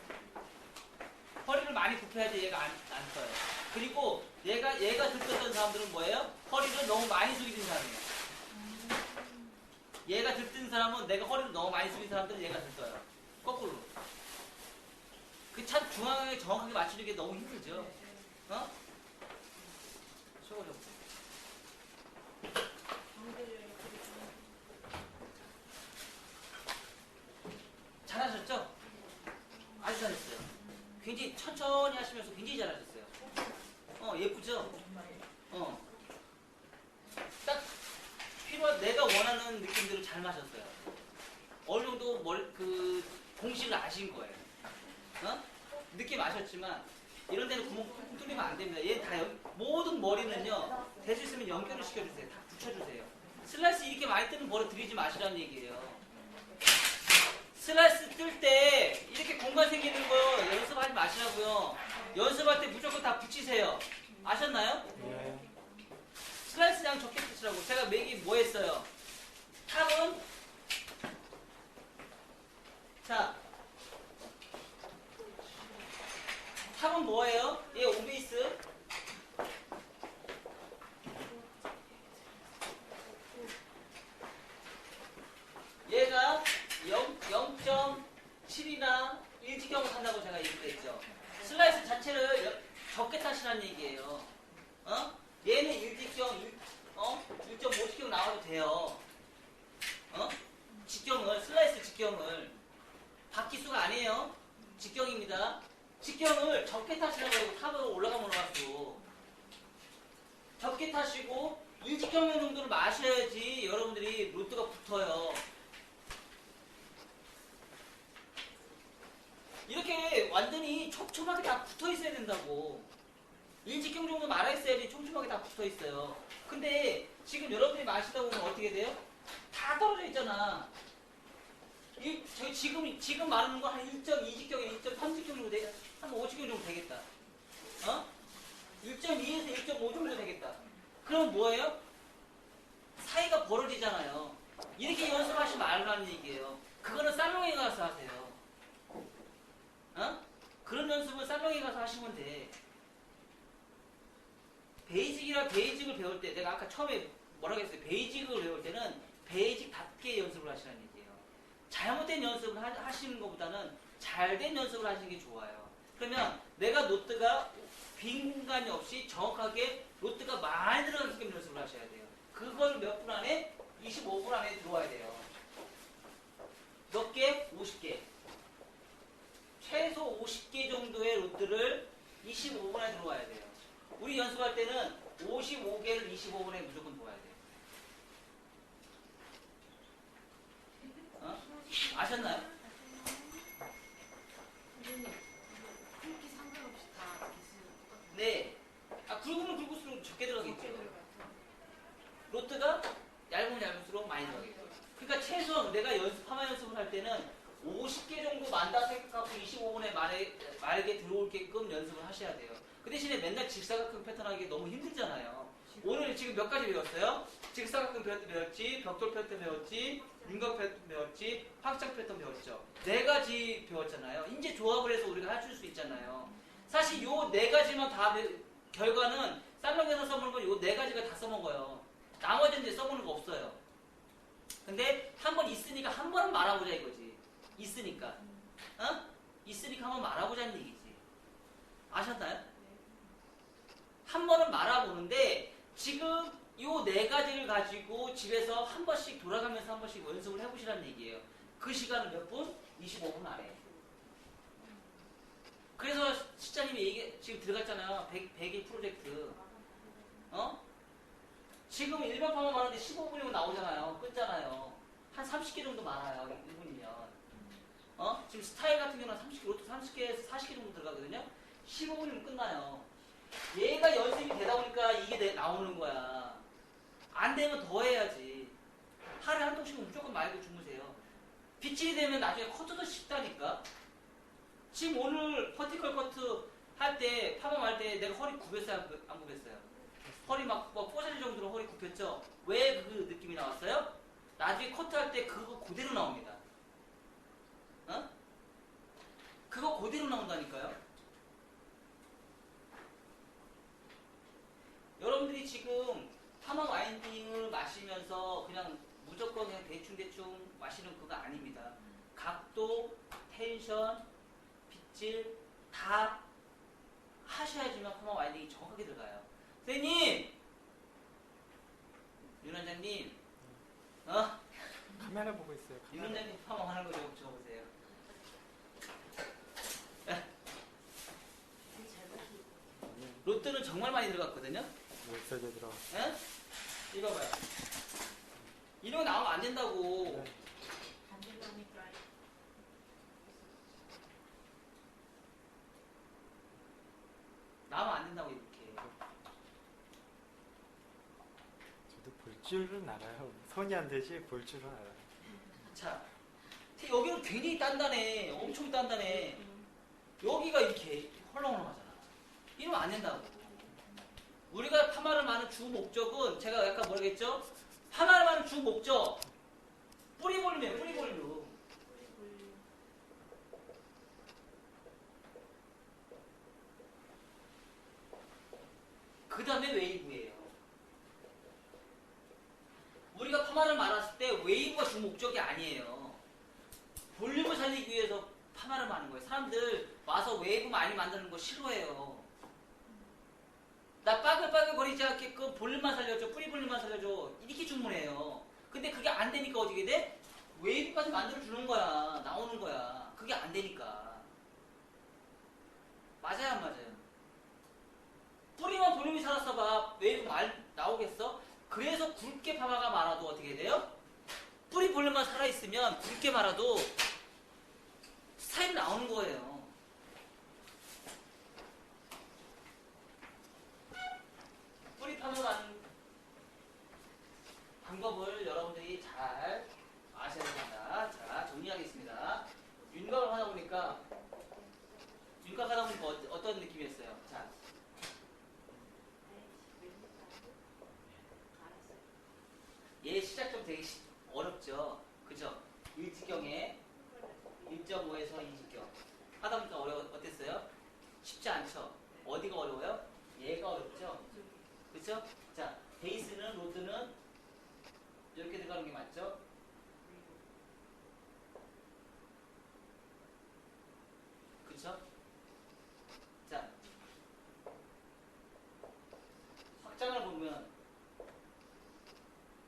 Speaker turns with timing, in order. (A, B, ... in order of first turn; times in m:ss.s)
0:01.4-0:08.1 A
0:08.5-0:09.6 B
0:10.0-0:13.9 A
0:15.5-0:17.9 A
0:17.7-0:18.3 B
0:18.5-0:18.7 A
0:20.4-0:21.1 A
0:23.1-0:24.6 B
0:28.0-0:28.7 A
0:28.8-0:29.8 B
0:29.8-0:33.2 A
0:30.6-0:31.0 B
0:33.2-0:33.7 B
0:34.0-0:34.8 A
0:34.7-0:35.2 B
0:35.5-0:35.9 A
0:37.4-0:37.7 A
0:38.4-0:40.8 A
0:41.6-0:44.5 A
0:45.2-0:56.0 A
0:47.8-0:49.1 B
0:50.3-0:52.0 B
0:56.2-0:56.6 B
0:57.5-1:05.0 A
1:01.9-1:02.3 B
1:04.9-1:05.9 B
1:04.9-1:05.4 C
1:06.4-1:08.9 A
1:09.6-1:10.2 A
1:13.0-1:13.4 A
1:15.2-1:15.8 B
1:16.6-1:18.6 A
1:21.2-1:22.5 B
1:23.0-1:23.5 B
1:25.8-1:34.3 A
1:31.0-1:32.0 B
1:34.8-1:39.0 A
1:40.1-1:42.5 A
1:43.3-1:49.0 A
1:49.0-1:49.4 B
1:50.6-1:55.4 A
1:59.7-2:02.9 A
2:03.6-2:10.7 A
2:12.0-2:17.0 A
2:17.8-2:18.1 A
2:18.8-2:21.8 A
2:23.0-2:28.4 A
2:29.9-2:32.6 A
2:34.8-2:55.2 A
2:56.9-2:58.1 A
2:59.6-3:07.5 A
3:10.8-3:13.5 B
3:11.2-3:12.5 A
3:14.7-3:18.3 B
3:18.1-3:21.0 A
3:20.4-3:21.4 B
3:22.3-3:53.6 A
3:24.2-3:24.8 B
3:46.3-3:47.0 B
3:54.6-3:58.2 A
3:58.1-3:58.5 B
3:58.8-4:01.0 A
4:01.9-4:02.4 A
4:02.5-4:03.2 B
4:04.0-4:13.6 A
4:14.6-4:15.1 B
4:15.8-4:19.4 A
4:19.4-4:20.3 B
4:20.3-4:20.6 A
4:21.7-4:27.2 A
4:27.3-4:27.6 B
4:28.0-4:32.9 A
4:33.5-4:36.4 A
4:37.1-4:38.6 A
4:39.2-4:41.0 A
4:41.6-4:43.6 A
4:44.7-4:49.6 A
4:50.2-4:56.4 A
4:59.5-5:00.8 A
5:05.0-5:14.0 A
5:14.7-5:16.2 A
5:17.2-5:20.3 A
5:22.4-5:23.2 A
5:24.0-5:24.4 A
5:24.9-5:26.3 C
5:25.9-5:27.7 A
5:31.6-5:32.8 B
5:32.8-5:33.4 C
5:33.2-5:34.7 A
5:35.0-5:35.8 C
5:35.9-5:36.2 A
5:36.9-5:37.4 A
5:38.8-5:40.3 A
5:40.0-5:40.3 C
5:41.0-5:42.0 B
5:47.7-5:48.9 A
5:51.9-5:55.1 C
5:55.7-5:56.1 A
5:56.6-5:59.4 A
5:59.4-5:59.7 B
6:00.2-6:03.7 A
6:03.5-6:03.9 B
6:04.5-6:09.3 A
6:10.2-6:11.6 A
6:10.8-6:11.1 B
6:11.8-6:12.6 B
6:19.3-6:20.5 A
6:23.1-6:26.2 A
6:27.1-6:32.3 A
6:34.0-6:44.3 A
6:46.2-6:47.0 A
6:48.6-6:53.9 A
6:54.7-6:56.9 A
6:58.4-6:59.7 A
7:04.9-7:05.8 A
7:07.8-7:14.0 A
7:12.8-7:15.4 B
7:15.4-7:17.6 A
7:19.2-7:20.6 B
7:21.5-7:22.1 B
7:23.0-7:26.8 A
7:26.8-7:27.7 B
7:27.6-7:30.7 A
7:31.2-7:34.2 A
7:34.1-7:34.7 B
7:34.9-7:37.1 A
7:38.3-7:39.4 A
7:40.0-7:40.4 B
7:44.6-7:45.0 A
7:46.4-7:46.8 A
7:49.8-7:50.7 A